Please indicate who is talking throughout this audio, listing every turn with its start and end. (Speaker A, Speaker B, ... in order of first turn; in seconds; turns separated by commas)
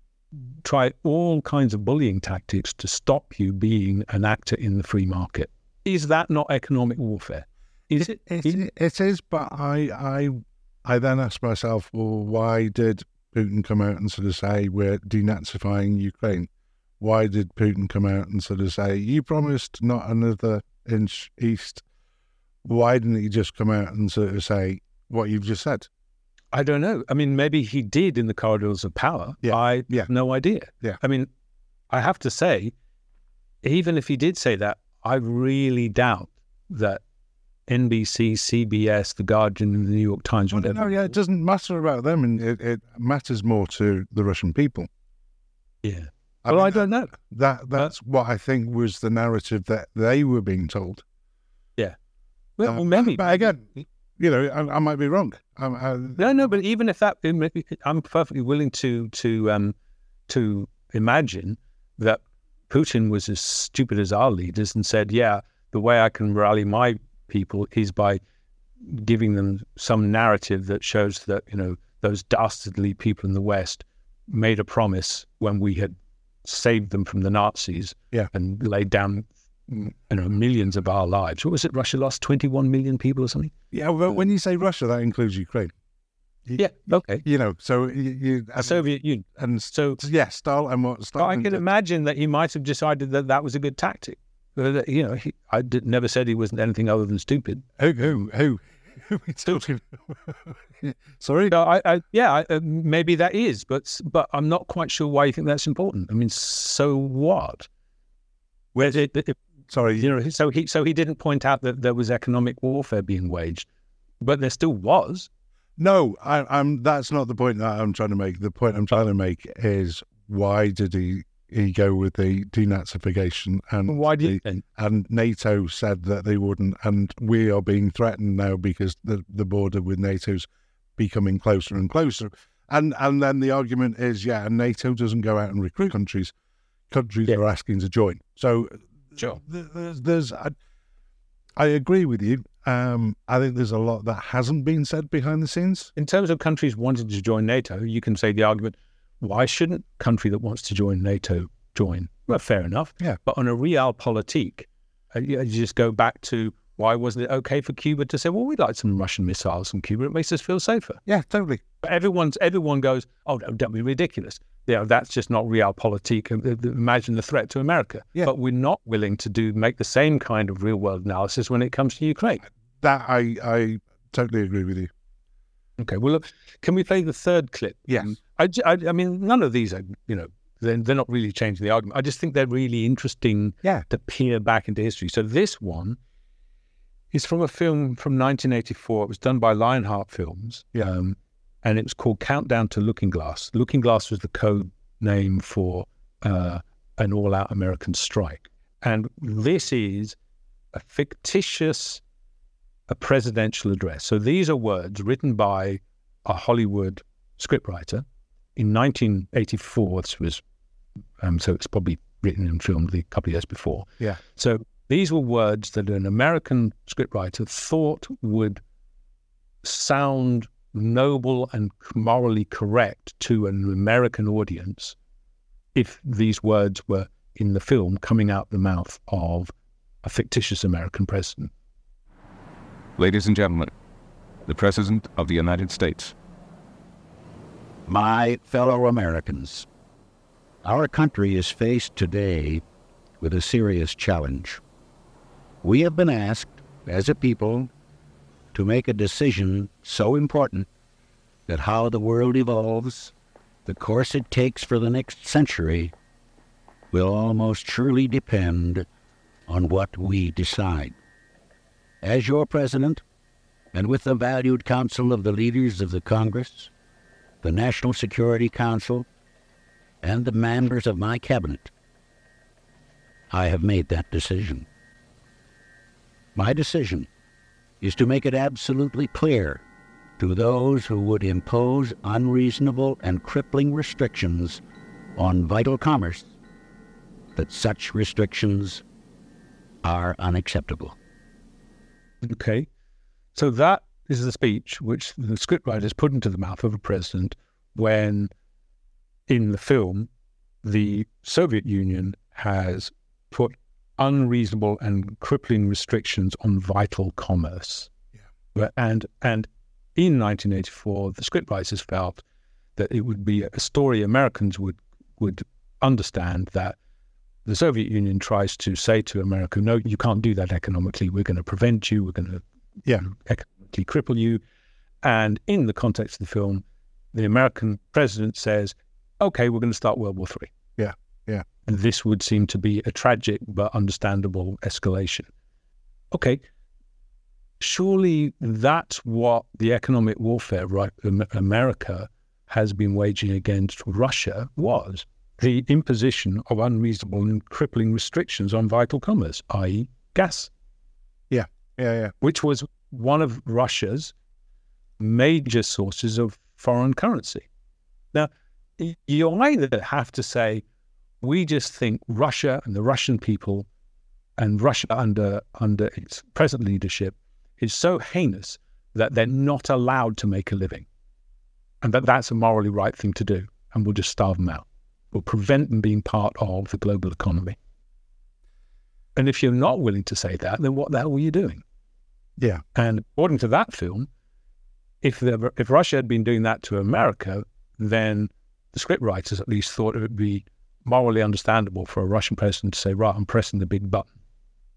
Speaker A: 0.4-8.7, Speaker B: 8.0-16.5, Speaker B: 17.0-21.8, Speaker B: 22.6-25.9, Speaker A: 26.5-31.3, Speaker B: 29.4-30.1, Speaker A: 31.9-32.7, Speaker A: 33.6-37.0, Speaker A: 37.7-41.1, Speaker B: 40.5-44.9, Speaker A: 45.8-47.1, Speaker B: 46.4-51.0, Speaker A: 52.6-53.5, Speaker B: 52.6-56.2, Speaker A: 56.2-59.8, Speaker A: 60.3-68.2, Speaker A: 68.8-83.5, Speaker B: 83.7-85.7, Speaker A: 86.6-87.3, Speaker B: 87.2-88.8, Speaker A: 88.6-90.0, Speaker B: 89.4-91.6, Speaker A: 91.2-97.7, Speaker B: 97.8-101.5, Speaker A: 101.5-107.7, Speaker B: 108.8-109.0, Speaker A: 108.8-109.4, Speaker B: 109.7-110.1, Speaker A: 110.0-113.7, Speaker A: 114.2-115.3, Speaker B: 115.8-130.5, Speaker A: 123.9-124.6, Speaker B: 131.0-136.3, Speaker B: 136.9-140.6, Speaker B: 141.6-145.9, Speaker A: 146.0-161.0, Speaker B: 161.1-161.6, Speaker A: 161.8-172.4, Speaker B: 172.8-174.9, Speaker A: 175.8-186.0, Speaker B: 177.9-178.1, Speaker A: 187.1-200.2, Speaker A: 200.7-202.0, Speaker A: 202.9-208.1, Speaker A: 208.6-210.4, Speaker A: 211.2-218.6, Speaker A: 219.6-225.0, Speaker A: 225.8-229.5, Speaker A: 230.0-231.5, Speaker C: 233.0-233.7, Speaker C: 234.5-236.2, Speaker D: 237.9-239.7, Speaker D: 240.6-242.6, Speaker D: 243.2-244.6, Speaker D: 245.6-247.7, Speaker D: 248.5-250.7, Speaker D: 251.5-253.1, Speaker D: 253.7-255.9, Speaker D: 256.9-258.9, Speaker D: 259.5-260.9, Speaker D: 262.0-263.0, Speaker D: 263.7-266.7, Speaker D: 267.4-269.1, Speaker D: 270.0-271.7, Speaker D: 273.3-274.7, Speaker D: 276.4-277.1, Speaker D: 277.8-279.6, Speaker D: 280.2-284.6, Speaker D: 285.2-286.3, Speaker D: 287.4-288.8, Speaker D: 289.8-291.0, Speaker A: 292.2-292.7, Speaker A: 293.4-298.3, Speaker A: 299.3-300.1, Speaker A: 300.6-307.9, Speaker A: 308.6-312.2, Speaker A: 312.8-316.8, Speaker A: 317.5-322.4, Speaker A: 322.9-324.4, Speaker A: 325.0-330.5, Speaker B: 330.8-331.5, Speaker A: 331.7-335.3, Speaker A: 336.1-336.4, Speaker A: 337.6-350.5, Speaker B: 351.3-352.1, Speaker A: 352.2-354.1, Speaker A: 355.0-357.5, Speaker A: 358.1-360.6, Speaker A: 361.2-363.7, Speaker A: 364.4-370.9, Speaker A: 371.8-377.6, Speaker A: 379.1-381.6, Speaker A: 382.8-384.1, Speaker A: 385.0-394.1